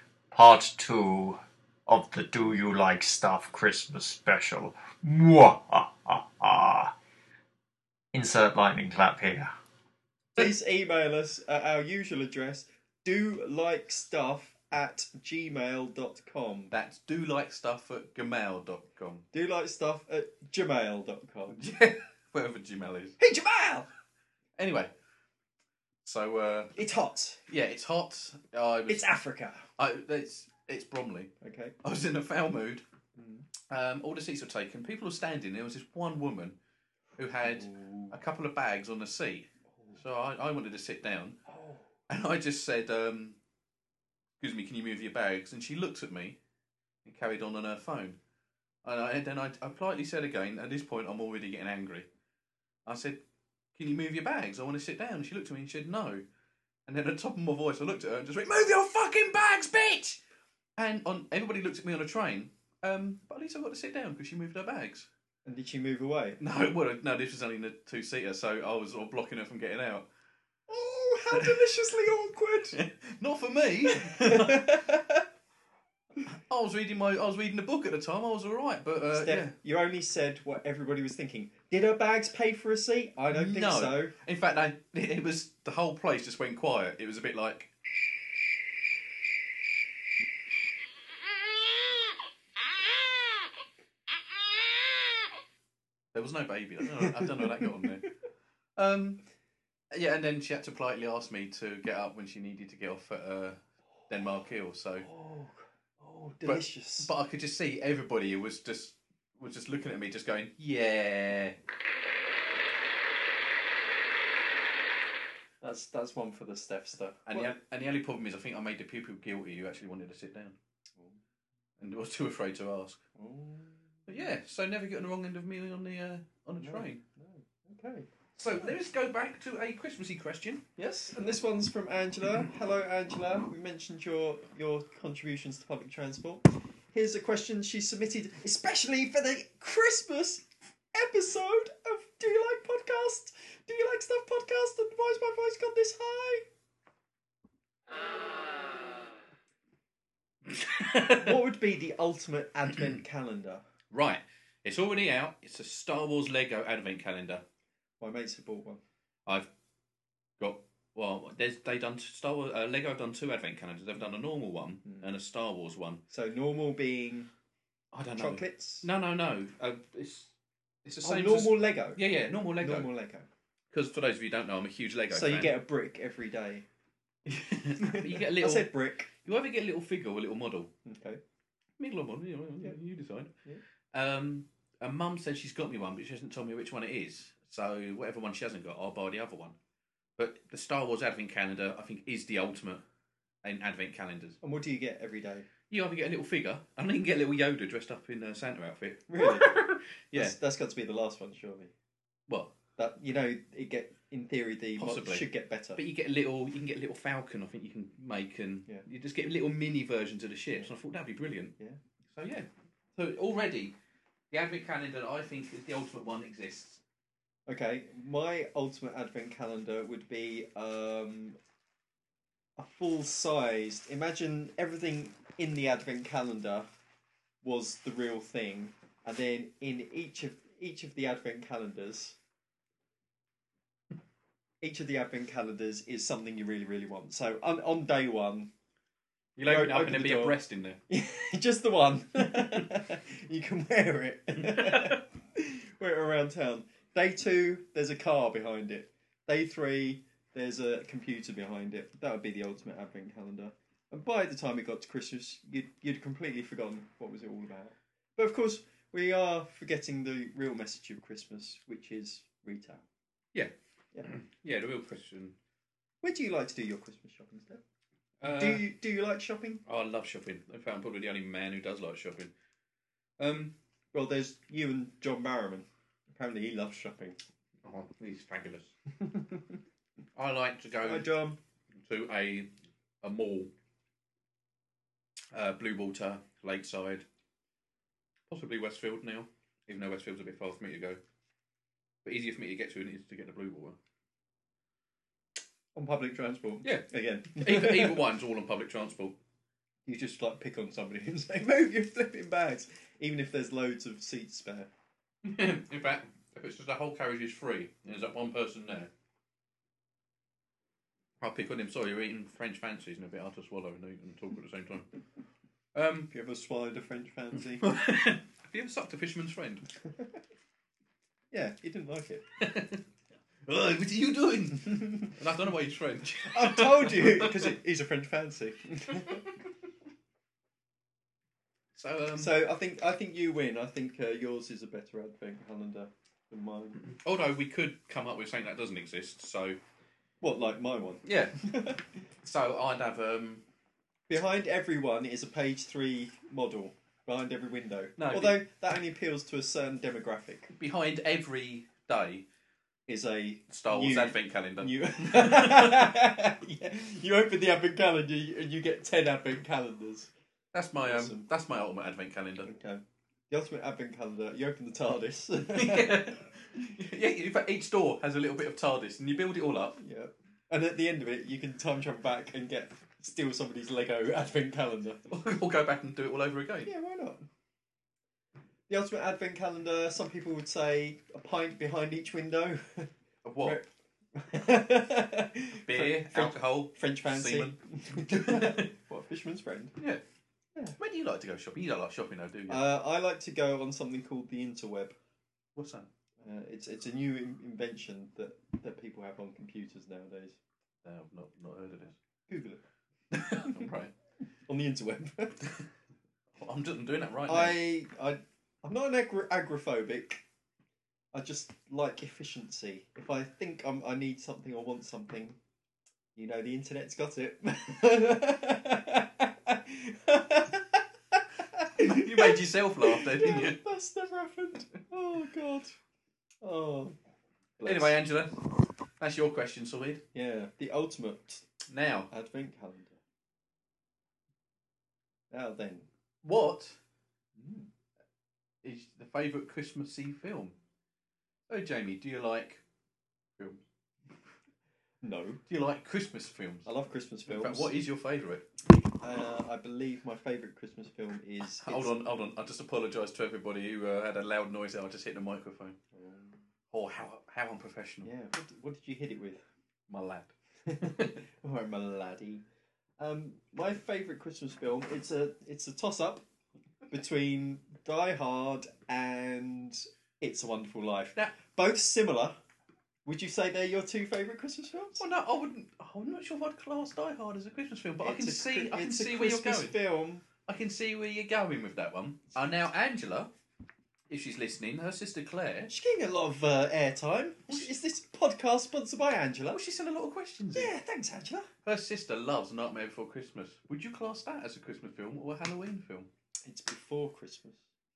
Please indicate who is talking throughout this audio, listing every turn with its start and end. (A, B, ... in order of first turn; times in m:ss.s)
0:00.3-0:06.9 A
0:08.1-0:09.5 A
0:10.3-0:16.7 B
0:16.7-0:19.2 C
0:19.3-0:21.6 B
0:21.5-0:23.2 C
0:23.2-0:23.9 B
0:24.6-0:24.9 C
0:26.0-0:26.7 C
0:26.7-0:27.4 B
0:27.5-0:29.0 C
0:28.9-0:29.6 B
0:29.8-0:32.8 C
0:31.4-0:31.7 B
0:33.2-0:33.5 B
0:33.7-0:36.6 C
0:37.2-0:41.4 C
0:37.4-0:38.1 B
0:41.5-0:41.8 B
0:42.1-0:43.4 C
0:44.4-0:46.4 C
0:47.0-0:48.2 C
0:48.8-0:52.1 C
0:52.8-0:53.2 C
0:53.7-0:56.2 C
0:56.9-1:00.2 C
1:00.8-1:05.1 C
1:05.4-1:06.4 B
1:06.4-1:10.1 C
1:10.7-1:12.8 B
1:11.3-1:11.6 C
1:12.7-1:14.8 C
1:13.8-1:15.3 B
1:16.3-1:19.6 C
1:19.0-1:24.1 B
1:23.3-1:27.7 C
1:36.1-1:38.1 C
1:36.9-1:37.8 B
1:38.8-1:39.2 C
1:39.9-1:45.1 C
1:45.0-1:47.1 B
1:46.4-1:51.6 C
1:55.6-1:57.6 B
1:57.3-2:00.6 C
2:01.8-2:03.0 C
2:03.2-2:04.2 B
2:04.0-2:07.0 C
2:06.6-2:08.7 B
2:08.4-2:10.6 C
2:10.8-2:26.4 B
2:30.5-2:31.4 C
2:31.1-2:33.6 B
2:33.9-2:37.4 C
2:38.0-2:38.8 B
2:40.4-2:46.0 C
2:46.1-2:47.3 B
2:47.9-2:50.3 C
2:48.2-2:48.9 B
2:50.8-2:52.9 C
2:51.0-2:52.0 B
2:52.6-2:53.3 B
2:53.7-2:55.6 C
2:55.1-2:56.7 B
2:57.2-2:58.7 C
2:57.8-2:59.1 B
2:59.2-3:00.7 C
3:00.8-3:01.2 B
3:01.8-3:03.3 C
3:03.9-3:09.6 C
3:10.2-3:12.8 C
3:13.4-3:14.4 C
3:14.4-3:15.5 B
3:15.7-3:20.3 C
3:19.1-3:19.6 B
3:20.1-3:21.7 B
3:22.3-3:22.6 C
3:22.8-3:25.8 B
3:24.8-3:31.5 C
3:32.1-3:33.8 C
3:34.3-3:36.8 C
3:37.5-3:41.4 B
3:42.6-3:46.7 B
3:47.4-3:52.2 B
3:54.6-3:58.5 B
3:59.4-4:00.8 C
3:59.4-4:00.4 B
4:00.9-4:22.8 B
4:02.3-4:02.7 C
4:04.4-4:05.0 C
4:24.0-4:25.4 C
4:26.0-4:27.6 B
4:28.2-4:28.7 C
4:28.3-4:29.6 B
4:29.6-4:32.3 C
4:33.2-4:33.6 C
4:33.9-4:37.2 B
4:37.6-4:38.7 C
4:39.0-4:39.5 B
4:40.2-4:41.1 C
4:40.8-4:41.4 B
4:41.8-4:42.5 C
4:43.0-4:43.5 C
4:45.3-4:47.0 C
4:48.3-4:51.0 C
4:52.0-4:53.8 C
4:55.7-4:58.0 B
4:56.6-4:59.2 C
4:59.8-5:04.7 B
5:05.2-5:08.9 C
5:11.2-5:15.0 C
5:15.7-5:16.1 C
5:16.1-5:17.7 B
5:17.5-5:19.7 C
5:19.8-5:20.2 B
5:21.3-5:22.2 B
5:22.4-5:22.8 C
5:23.4-5:27.5 C
5:24.8-5:25.1 B
5:26.2-5:29.3 B
5:31.7-5:32.3 C
5:32.2-5:36.8 B
5:36.9-5:39.6 C
5:40.2-5:41.9 B
5:41.0-5:41.5 C
5:42.2-5:43.4 C
5:44.1-5:50.5 B
5:48.0-5:48.4 C
5:50.5-5:52.2 C
5:52.9-6:00.1 B
5:53.5-5:55.9 C
6:00.5-6:02.5 C
6:00.8-6:01.3 B
6:02.4-6:06.1 B
6:05.4-6:09.8 C
6:09.8-6:15.1 B
6:15.1-6:16.7 C
6:16.6-6:17.3 B
6:18.7-6:29.8 B
6:23.2-6:23.6 C
6:25.6-6:28.7 C
6:30.8-6:32.6 C
6:32.5-6:35.0 B
6:35.5-6:35.9 C
6:36.2-6:40.4 B
6:40.8-6:42.0 C
6:42.3-6:42.6 B
6:43.1-6:43.9 C
6:44.5-6:45.4 B
6:46.4-6:47.6 C
6:47.3-6:50.2 B
6:51.1-6:55.4 B
6:56.1-7:05.8 B
7:01.8-7:03.6 C
7:06.4-7:07.0 B
7:07.6-7:08.0 B
7:07.6-7:10.0 C
7:10.1-7:11.5 B
7:11.7-7:12.1 C
7:12.1-7:13.0 B
7:15.3-7:15.9 B
7:16.2-7:16.8 C
7:17.4-7:17.7 B
7:18.6-7:20.6 C
7:21.5-7:22.6 C
7:23.4-7:23.6 C
7:25.0-7:25.4 B
7:25.5-7:26.7 C
7:26.6-7:27.7 B
7:27.3-7:28.5 C
7:29.0-7:31.9 B
7:31.6-7:35.8 C
7:35.9-7:36.4 B
7:36.7-7:38.1 C
7:38.0-7:39.4 B
7:39.9-7:41.2 C
7:40.7-7:42.4 B
7:43.0-7:46.2 B
7:46.9-7:52.4 B
7:53.0-7:55.0 B
7:55.0-7:59.8 C
7:58.0-8:00.2 B
8:00.4-8:03.3 C
8:04.1-8:05.7 C
8:05.7-8:09.6 B
8:09.5-8:10.7 C
8:10.5-8:11.5 B
8:11.6-8:16.1 C
8:16.4-8:17.6 B